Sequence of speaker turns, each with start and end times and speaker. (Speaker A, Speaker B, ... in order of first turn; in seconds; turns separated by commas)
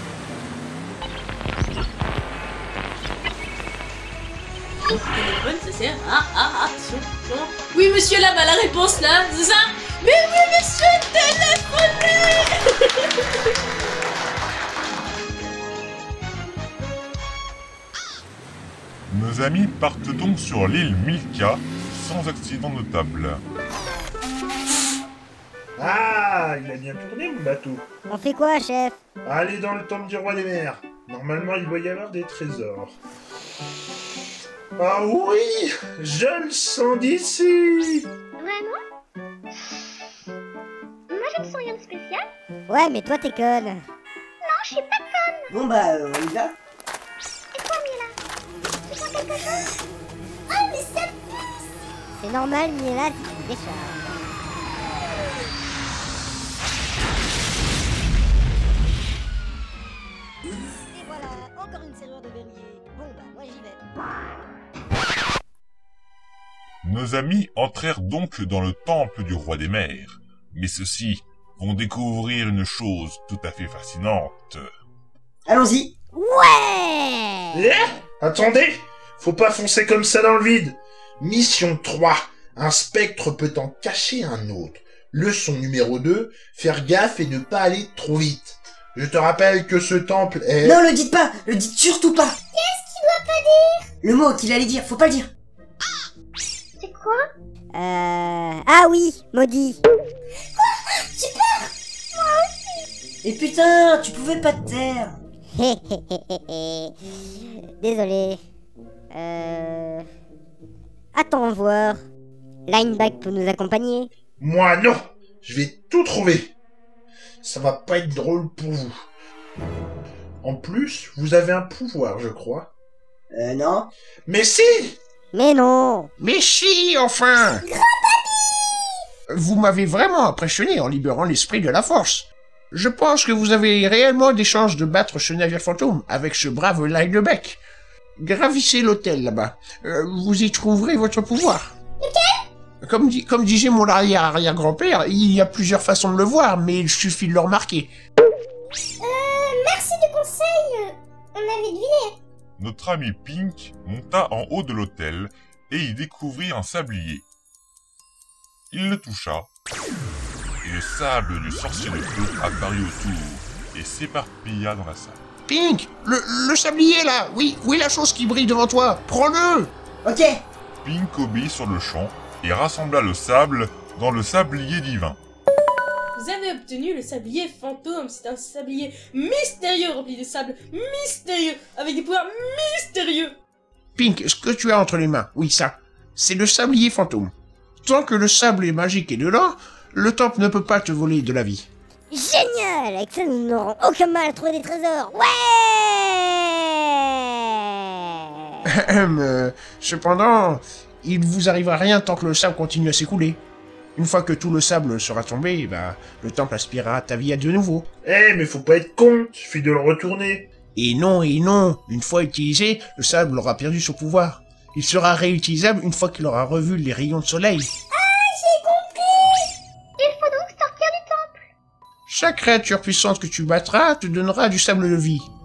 Speaker A: 4.9-13.1, Speaker B: 19.1-23.4, Speaker C: 25.8-27.9, Speaker D: 28.1-29.0, Speaker C: 29.2-33.0, Speaker C: 34.8-38.0, Speaker E: 38.4-38.7, Speaker E: 41.1-42.2, Speaker D: 42.7-43.8, Speaker E: 44.4-45.5, Speaker F: 45.5-46.5, Speaker E: 47.5-48.1, Speaker E: 48.9-49.6, Speaker E: 50.5-51.4, Speaker D: 52.2-54.2, Speaker D: 61.0-63.8, Speaker B: 66.8-74.7, Speaker F: 75.5-75.9, Speaker D: 76.2-77.6, Speaker C: 77.5-90.7, Speaker F: 90.6-92.4, Speaker E: 92.5-93.9, Speaker F: 94.0-95.3, Speaker E: 96.8-97.2, Speaker D: 97.8-99.8, Speaker E: 100.6-102.7, Speaker F: 103.2-105.2, Speaker D: 105.5-106.9, Speaker D: 107.8-108.4, Speaker D: 109.1-110.1, Speaker D: 111.1-112.0, Speaker D: 112.7-114.1, Speaker C: 114.4-116.5, Speaker C: 117.4-118.9, Speaker C: 120.4-122.7, Speaker F: 123.3-123.9, Speaker C: 124.3-125.0, Speaker D: 125.3-126.1, Speaker G: 126.2-127.7, Speaker E: 127.7-128.7, Speaker G: 129.3-137.6, Speaker G: 138.2-141.8, Speaker E: 142.0-142.3, Speaker G: 142.8-147.9, Speaker E: 149.0-152.2, Speaker B: 152.6-157.2, Speaker B: 158.7-159.5, Speaker B: 160.6-165.2, Speaker G: 165.5-169.7, Speaker F: 170.0-170.4, Speaker B: 170.8-175.2, Speaker A: 176.2-183.4, Speaker G: 184.0-187.3, Speaker G: 187.8-191.7, Speaker D: 192.1-196.6, Speaker G: 198.7-203.4, Speaker G: 204.0-207.9, Speaker C: 208.0-210.5, Speaker G: 210.8-217.7, Speaker E: 217.9-221.3, Speaker G: 222.1-225.3